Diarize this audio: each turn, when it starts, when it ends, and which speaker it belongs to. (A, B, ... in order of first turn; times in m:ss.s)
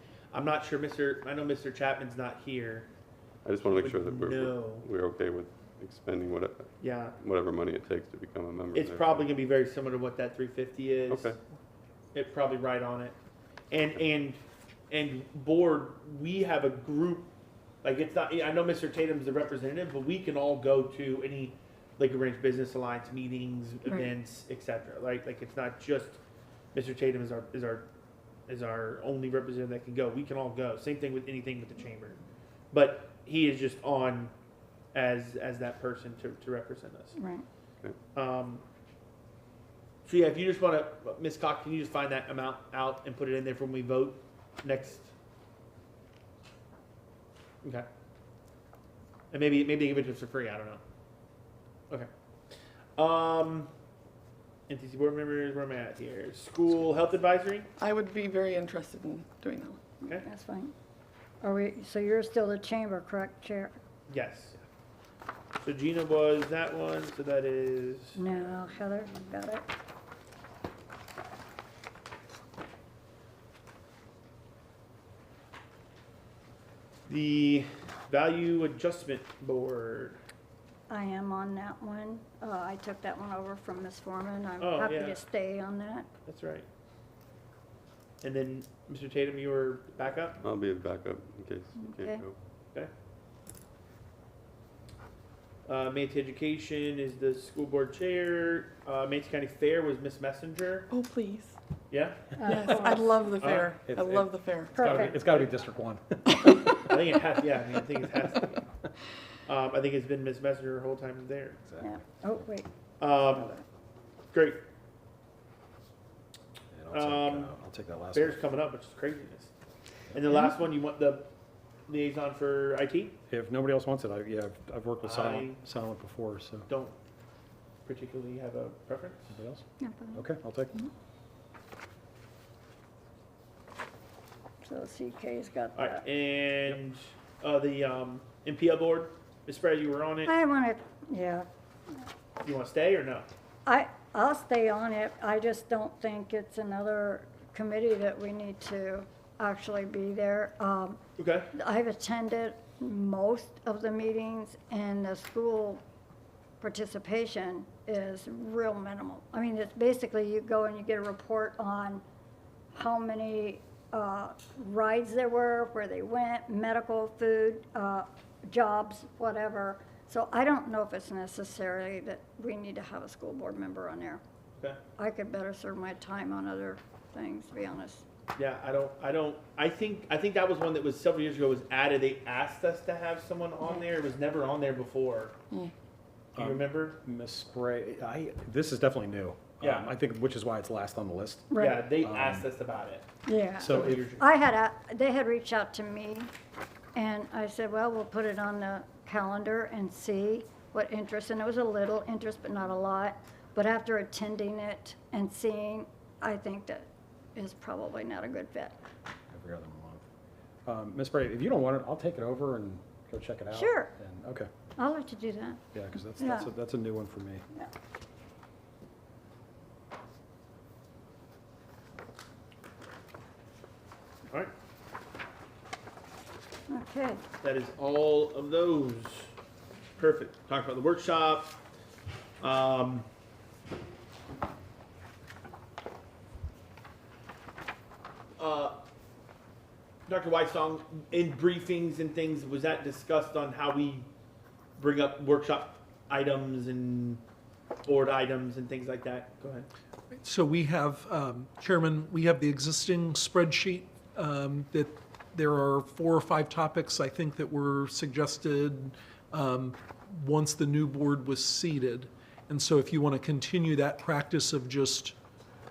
0:00.3-0:02.9 A
0:03.4-0:09.3 B
0:03.7-0:04.9 A
0:06.8-0:07.2 A
0:08.7-0:11.4 A
0:11.1-0:11.4 B
0:12.1-0:13.2 A
0:13.7-0:14.4 A
0:14.9-0:17.3 A
0:17.8-0:26.2 A
0:26.7-0:27.9 A
0:28.5-0:32.2 A
0:32.7-0:34.3 A
0:34.9-0:37.2 A
0:37.2-0:37.4 C
0:38.1-0:38.6 A
0:40.1-0:45.1 A
0:49.3-0:50.8 A
0:53.0-0:53.7 A
0:54.7-0:57.7 A
0:57.8-0:59.8 D
1:00.1-1:00.7 C
1:01.4-1:03.8 C
1:04.1-1:04.6 A
1:05.6-1:08.5 A
1:08.2-1:09.7 C
1:17.1-1:20.2 A
1:20.9-1:26.1 C
1:24.6-1:25.2 A
1:26.3-1:26.7 A
1:28.2-1:30.4 A
1:30.4-1:32.3 B
1:31.8-1:32.2 C
1:35.7-1:40.9 A
1:40.9-1:41.6 D
1:41.9-1:42.4 A
1:42.4-1:43.3 C
1:42.4-1:44.8 D
1:43.3-1:43.8 A
1:43.8-1:44.2 E
1:44.8-1:45.1 C
1:44.8-1:45.5 A
1:44.8-1:47.1 E
1:46.9-1:48.6 A
1:49.5-1:51.6 A
1:51.6-1:52.0 E
1:51.8-1:52.7 C
1:53.0-1:53.5 A
1:53.2-1:53.6 C
1:54.3-1:54.6 A
1:56.7-1:58.4 E
1:56.9-1:57.5 A
1:58.1-1:59.5 A
2:00.1-2:01.3 A
2:01.9-2:03.2 A
2:03.3-2:06.7 E
2:05.0-2:05.6 A
2:06.7-2:07.0 A
2:07.8-2:09.3 A
2:09.3-2:10.8 E
2:09.8-2:10.9 C
2:14.6-2:16.0 C
2:15.8-2:20.3 A
2:20.3-2:21.5 C
2:22.4-2:23.3 A
2:23.7-2:31.0 C
2:31.2-2:31.5 A
2:31.5-2:35.8 C
2:36.6-2:42.0 C
2:42.7-2:54.2 C
2:55.0-2:58.0 C
2:58.4-3:05.4 A
3:06.4-3:07.0 A
3:06.4-3:12.4 E
3:09.6-3:09.9 A
3:11.5-3:11.8 C
3:11.5-3:13.1 A
3:13.3-3:16.3 C
3:13.6-3:14.0 E
3:13.7-3:14.3 A
3:17.0-3:28.8 C
3:29.3-3:30.0 E
3:30.7-3:34.5 E
3:33.5-3:33.9 C
3:34.8-3:35.6 C
3:35.7-3:37.4 E
3:36.2-3:36.5 C
3:46.7-3:47.2 C
3:47.4-3:49.3 A
3:50.0-3:51.6 A
3:52.4-3:53.1 A
3:58.4-3:58.8 A
4:00.1-4:04.1 A
4:04.8-4:07.2 A
4:07.8-4:09.7 A
4:10.1-4:25.2 F